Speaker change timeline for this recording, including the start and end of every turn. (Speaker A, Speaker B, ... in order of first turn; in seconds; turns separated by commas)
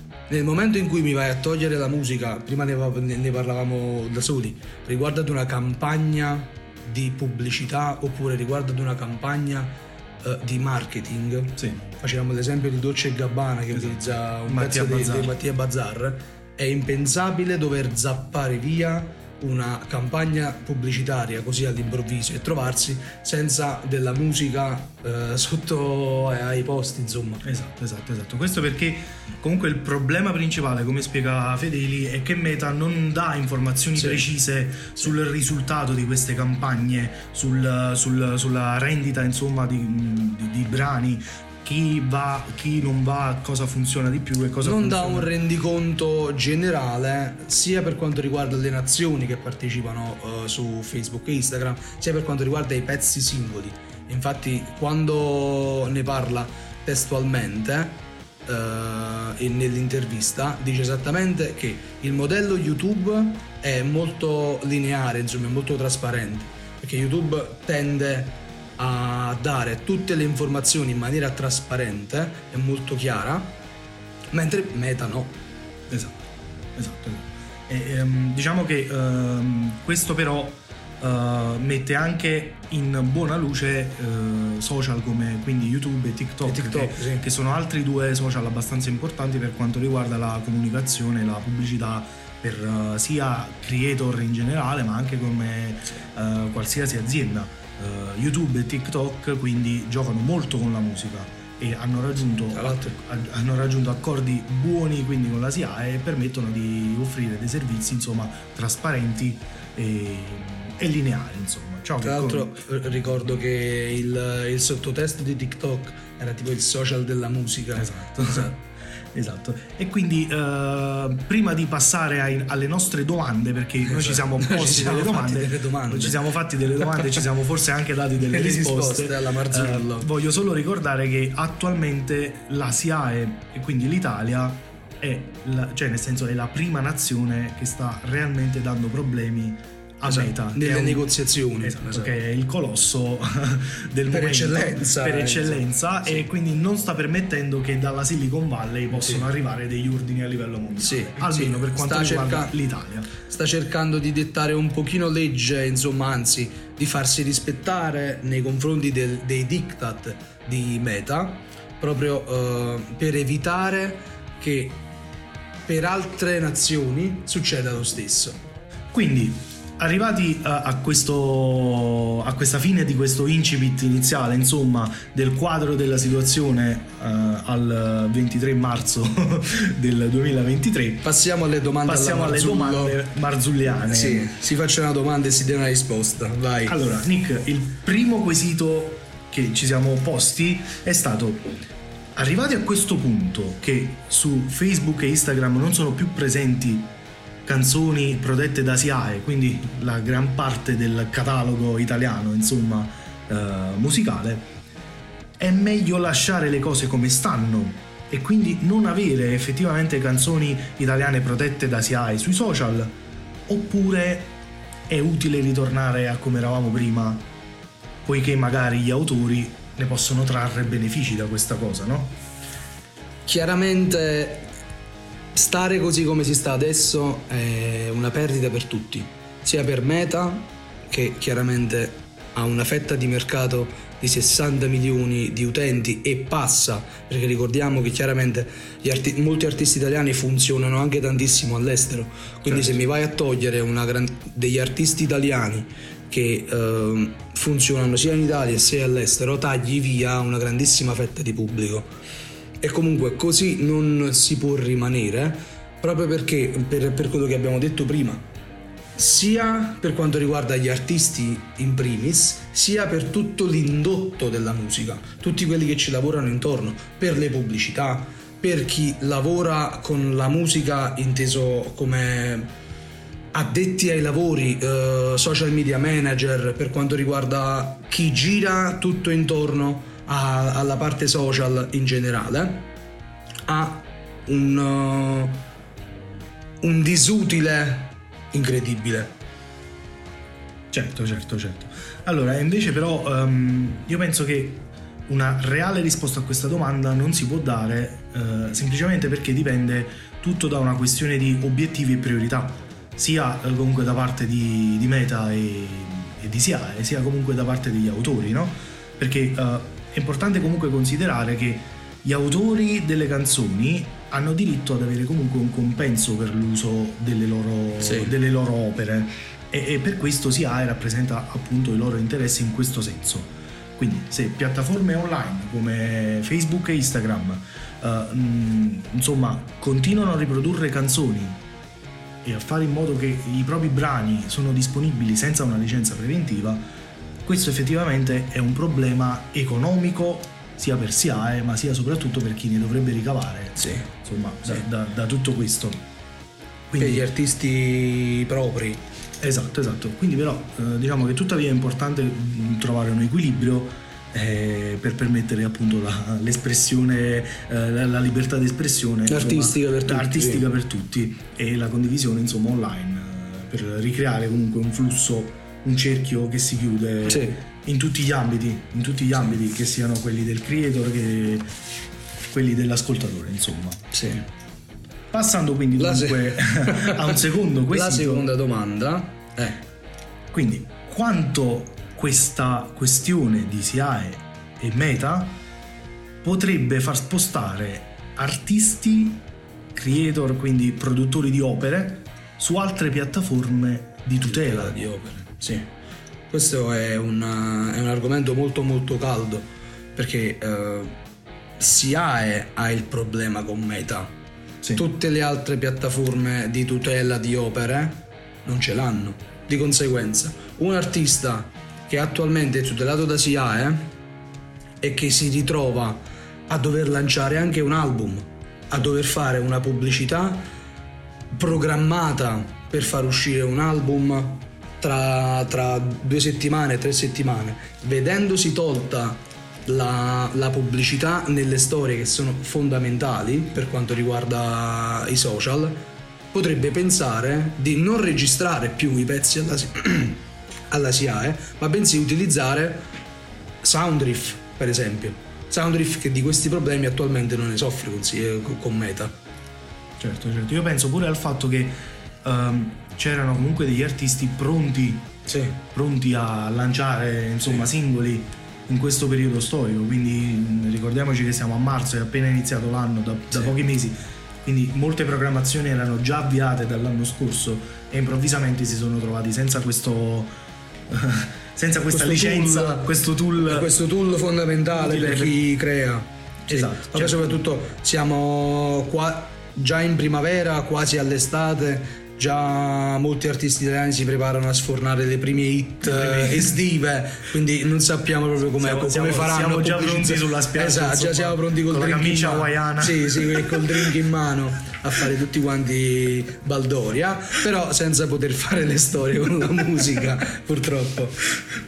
Speaker A: 0.3-27.4, Speaker B: 11.6-11.8, Speaker B: 13.7-15.3, Speaker B: 27.4-45.3, Speaker A: 34.0-34.2, Speaker A: 44.6-73.6, Speaker A: 74.3-75.4, Speaker B: 75.9-76.2, Speaker B: 76.8-112.6, Speaker A: 86.4-87.2, Speaker A: 102.5-103.0, Speaker A: 112.0-118.5, Speaker B: 117.8-118.6, Speaker B: 119.1-141.1, Speaker A: 123.9-126.2, Speaker A: 128.2-130.1, Speaker A: 140.1-142.2, Speaker B: 141.6-153.1, Speaker A: 144.1-146.2, Speaker A: 149.0-149.2, Speaker A: 150.8-152.5, Speaker A: 153.2-164.8, Speaker A: 165.7-168.4, Speaker B: 168.9-181.1, Speaker A: 181.0-183.0, Speaker B: 181.9-184.3, Speaker A: 183.9-186.8, Speaker B: 186.7-191.5, Speaker B: 192.2-196.9, Speaker B: 197.4-204.5, Speaker B: 205.4-212.9, Speaker B: 213.5-214.3, Speaker B: 214.9-217.3, Speaker B: 218.1-222.2, Speaker A: 223.3-224.5, Speaker A: 225.3-251.9, Speaker B: 242.5-242.8, Speaker A: 252.6-258.2, Speaker A: 259.0-272.5, Speaker A: 273.3-282.7, Speaker A: 283.5-285.4, Speaker A: 286.6-289.1, Speaker B: 290.7-331.4, Speaker A: 317.8-318.1, Speaker B: 332.2-336.6, Speaker B: 337.2-345.8, Speaker A: 343.6-343.9, Speaker B: 346.7-347.1, Speaker A: 346.8-348.8, Speaker B: 349.2-371.5, Speaker A: 359.1-360.5, Speaker A: 367.1-367.4, Speaker B: 372.3-373.9, Speaker A: 373.9-374.3, Speaker B: 375.1-378.3, Speaker A: 375.8-377.2, Speaker A: 377.7-379.6, Speaker B: 380.3-385.4, Speaker B: 386.2-394.8, Speaker A: 394.2-395.7, Speaker A: 396.3-401.0, Speaker A: 401.6-404.1, Speaker A: 404.8-413.9, Speaker A: 414.8-420.5, Speaker A: 421.3-442.9, Speaker A: 443.6-449.2, Speaker B: 450.0-455.1, Speaker A: 455.3-455.6, Speaker B: 455.7-470.3, Speaker B: 470.9-473.7, Speaker A: 471.9-501.4, Speaker B: 474.7-475.4, Speaker B: 476.5-477.4, Speaker B: 485.8-486.6, Speaker B: 488.6-493.9